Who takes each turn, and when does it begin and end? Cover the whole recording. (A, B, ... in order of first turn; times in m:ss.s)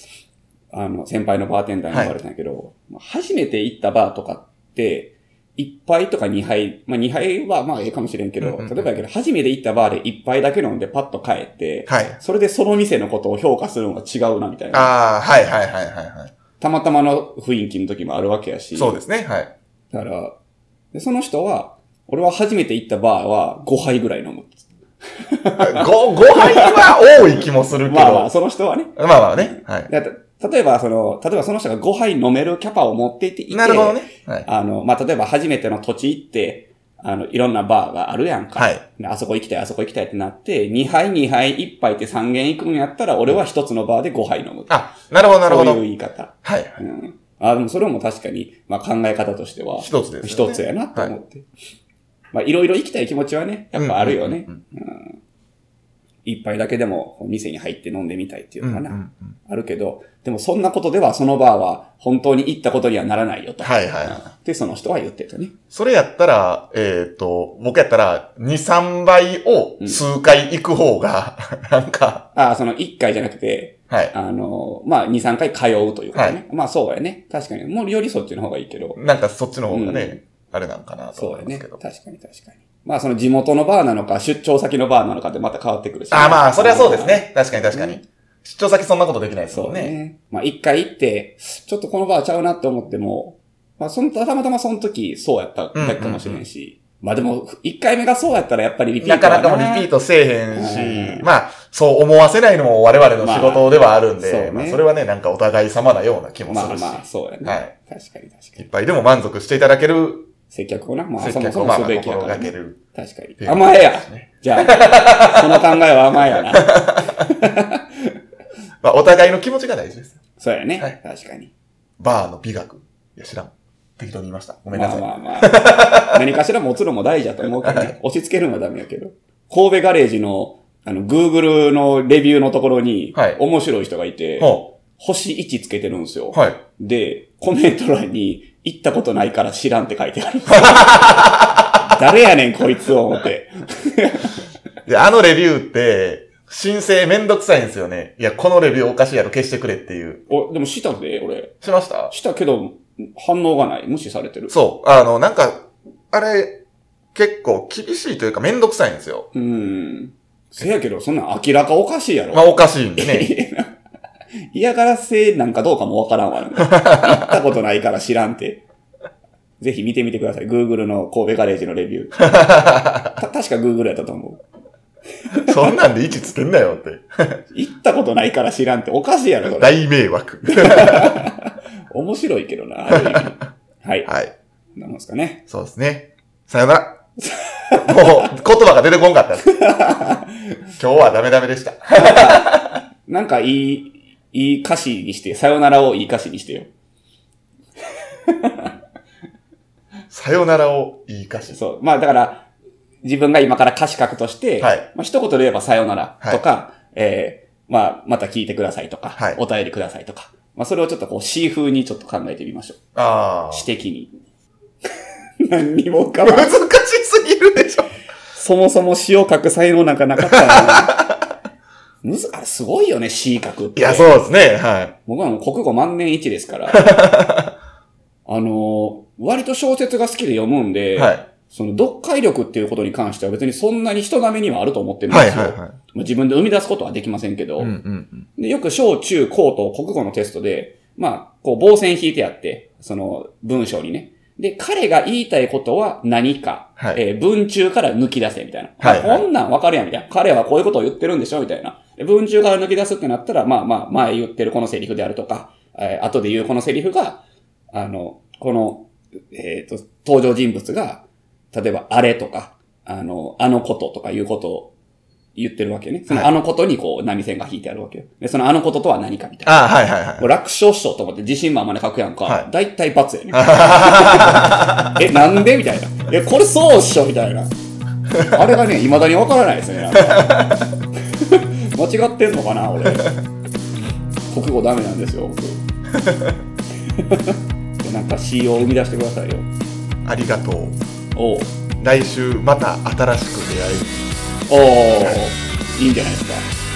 0:00.7-0:14.9 A
0:08.4-0:08.9 B
0:11.9-0:12.2 B
0:14.7-0:16.3 B
0:16.6-0:19.0 A
0:18.8-0:19.5 B
0:19.9-0:20.4 A
0:20.9-0:24.6 A
0:25.2-0:27.3 A
0:25.6-0:28.3 B
0:27.8-0:44.7 A
0:29.0-0:29.9 B
0:33.5-0:34.5 B
0:38.6-0:38.8 B
0:44.7-0:45.8 B
0:45.4-0:51.5 A
0:46.4-0:46.8 B
0:49.8-0:51.1 B
0:52.3-0:55.2 A
0:53.8-0:54.6 B
0:56.2-1:05.5 A
0:58.6-0:59.4 B
1:03.6-1:04.3 B
1:05.7-1:12.3 B
1:12.4-1:19.0 A
1:13.9-1:14.1 B
1:16.1-1:16.4 B
1:19.0-1:21.8 B
1:19.7-1:20.2 A
1:21.2-1:28.0 A
1:26.1-1:29.9 B
1:29.5-1:39.9 A
1:35.8-1:36.4 B
1:39.0-1:47.7 B
1:40.5-1:41.3 A
1:43.2-1:44.8 A
1:46.5-1:48.6 A
1:48.6-1:50.3 B
1:50.5-1:58.2 A
1:51.2-1:52.8 B
1:53.4-1:55.7 B
1:56.4-1:57.3 B
1:58.8-2:00.2 B
2:00.4-2:01.5 A
2:02.0-2:06.2 B
2:04.7-2:24.3 A
2:07.6-2:08.0 B
2:14.4-2:14.7 B
2:16.3-2:16.6 B
2:20.5-2:21.7 B
2:24.9-2:30.2 B
2:30.3-2:31.6 A
2:31.6-2:32.1 B
2:32.1-2:34.5 A
2:34.5-2:36.6 B
2:37.2-2:39.3 B
2:39.3-2:43.7 A
2:42.3-2:43.3 B
2:44.5-2:48.6 A
2:46.7-2:47.3 B
2:49.6-2:52.4 A
2:52.2-2:53.2 B
2:53.2-2:54.4 A
2:55.3-2:55.7 A
2:55.3-2:57.4 B
2:57.5-2:59.8 A
2:59.6-3:01.3 B
3:00.5-3:04.1 A
3:02.9-3:03.3 B
3:04.1-3:04.3 B
3:04.8-3:05.4 A
3:05.5-3:07.0 B
3:07.2-3:08.3 A
3:07.8-3:09.6 B
3:09.5-3:10.6 A
3:10.8-3:12.8 B
3:11.9-3:16.7 A
3:18.3-3:18.7 A
3:20.1-3:21.6 B
3:21.5-3:22.5 A
3:23.0-3:32.8 A
3:24.6-3:24.9 B
3:33.0-3:33.7 B
3:33.5-3:34.1 A
3:35.4-3:36.5 A
3:36.2-3:37.9 B
3:38.3-3:41.0 A
3:40.3-3:41.2 B
3:42.0-3:44.1 A
3:43.8-3:45.0 B
3:45.1-3:46.9 A
3:46.7-3:47.6 B
3:48.3-3:57.8 A
3:51.0-3:51.2 B
3:55.1-3:55.8 B
3:57.6-3:58.3 B
3:58.4-4:17.2 A
4:08.8-4:09.2 B
4:17.7-4:24.7 A
4:25.4-4:29.6 A
4:29.5-4:30.3 B
4:30.2-4:37.5 A
4:33.3-4:35.0 B
4:38.2-4:40.6 A
4:39.9-4:40.8 B
4:41.1-4:43.1 A
4:42.8-4:43.1 B
4:44.3-4:45.6 A
4:46.0-4:46.4 B
4:46.9-4:49.5 A
4:50.0-4:50.8 B
4:51.2-4:51.5 A
4:51.8-4:54.0 B
4:54.5-4:56.5 A